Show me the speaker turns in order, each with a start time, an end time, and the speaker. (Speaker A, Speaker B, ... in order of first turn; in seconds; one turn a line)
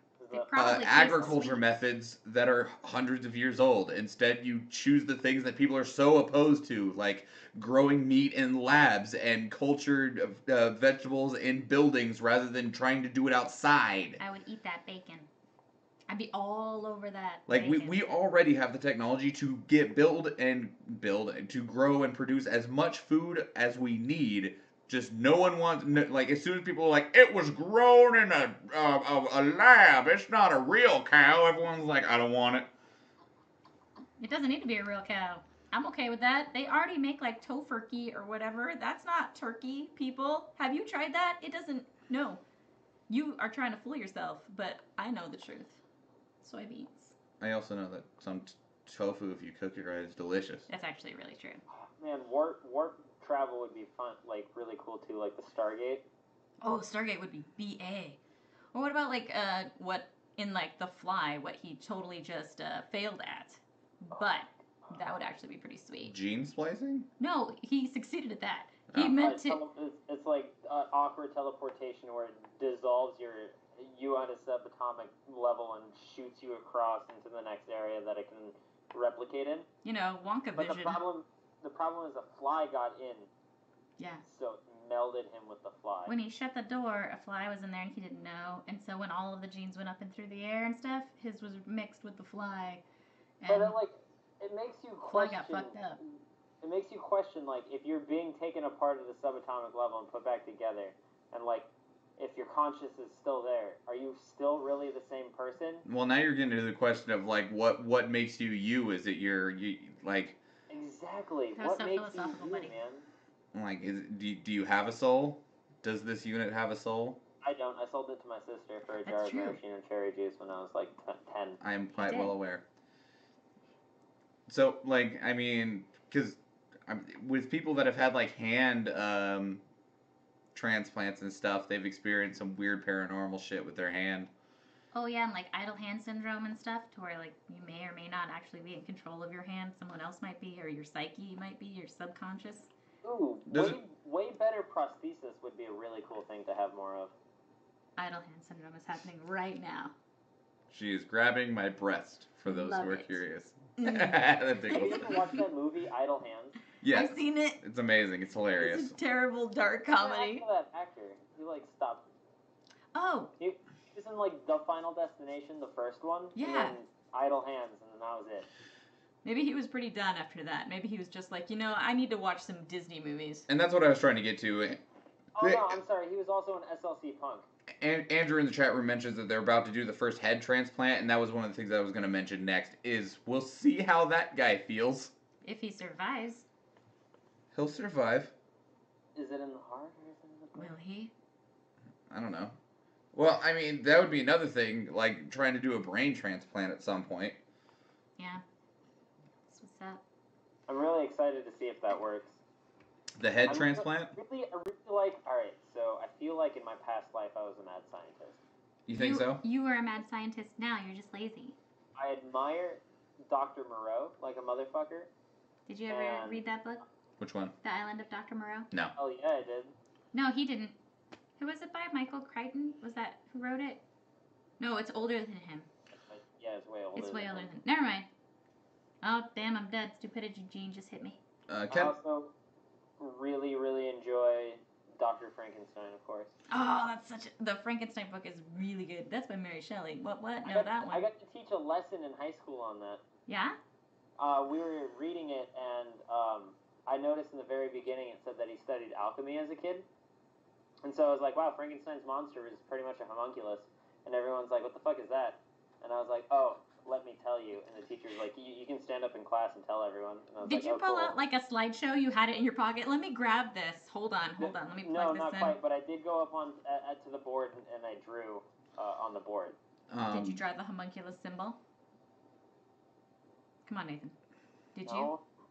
Speaker A: 0.2-1.6
Speaker B: 0.3-1.6
Speaker C: 0.5-14.2
Speaker B: 14.2-15.3
Speaker B: 16.1-17.9
Speaker C: 17.5-32.7
Speaker B: 34.2-42.4
Speaker B: 43.1-45.8
Speaker B: 46.4-47.1
Speaker C: 47.4-50.7
Speaker B: 50.7-51.6
Speaker A: 51.8-56.1
Speaker B: 56.6-58.2
Speaker B: 58.7-66.1
Speaker A: 64.1-64.4
Speaker C: 66.0-67.1
Speaker B: 67.2-69.6
Speaker C: 68.9-69.2
Speaker A: 69.2-79.7
Speaker B: 79.8-81.0
Speaker A: 80.6-83.3
Speaker B: 84.0-84.2
Speaker A: 84.2-86.1
Speaker B: 86.1-92.8
Speaker B: 93.4-93.8
Speaker A: 93.5-95.8
Speaker B: 95.1-96.0
Speaker A: 96.6-105.8
Speaker C: 105.9-110.4
Speaker A: 110.7-113.0
Speaker B: 111.6-112.7
Speaker C: 113.5-117.2
Speaker A: 117.4-121.6
Speaker B: 119.0-119.6
Speaker C: 121.6-122.6
Speaker B: 122.0-122.3
Speaker C: 124.5-129.6
Speaker C: 130.5-134.3
Speaker B: 134.9-142.7
Speaker A: 143.0-147.1
Speaker C: 143.5-143.8
Speaker B: 148.0-149.9
Speaker C: 150.7-155.1
Speaker B: 152.5-153.2
Speaker B: 153.8-155.4
Speaker A: 154.7-156.6
Speaker C: 156.8-159.0
Speaker B: 156.9-157.6
Speaker B: 158.6-160.4
Speaker A: 159.9-162.1
Speaker B: 162.9-163.3
Speaker A: 163.4-168.5
Speaker B: 166.4-166.8
Speaker B: 169.2-173.5
Speaker C: 173.5-174.8
Speaker A: 175.4-177.5
Speaker C: 175.4-175.8
Speaker C: 177.8-185.1
Speaker B: 185.4-186.4
Speaker C: 187.5-188.3
Speaker A: 189.2-190.7
Speaker B: 190.6-191.1
Speaker C: 192.1-192.6
Speaker C: 193.1-197.4
Speaker B: 198.2-198.4
Speaker B: 199.5-200.0
Speaker A: 200.7-202.4
Speaker C: 203.2-204.1
Speaker A: 203.5-208.4
Speaker C: 208.9-209.4
Speaker B: 208.9-211.6
Speaker A: 212.0-215.1
Speaker B: 215.7-216.8
Speaker A: 215.9-216.4
Speaker C: 217.2-217.5
Speaker B: 217.6-218.7
Speaker A: 219.0-219.7
Speaker B: 220.1-220.8
Speaker B: 221.4-223.8
Speaker B: 224.6-225.7
Speaker A: 225.9-227.5
Speaker B: 227.0-228.1
Speaker B: 229.0-231.2
Speaker C: 231.5-231.9
Speaker A: 231.7-232.3
Speaker A: 233.0-236.3
Speaker B: 236.5-241.1
Speaker A: 240.4-243.0
Speaker B: 243.3-243.6
Speaker A: 244.2-249.9
Speaker A: 250.8-261.2
Speaker B: 260.4-265.6
Speaker A: 264.4-269.6
Speaker C: 269.9-270.4
Speaker B: 270.1-271.6
Speaker B: 273.7-274.1
Speaker B: 274.8-275.1
Speaker A: 274.9-275.2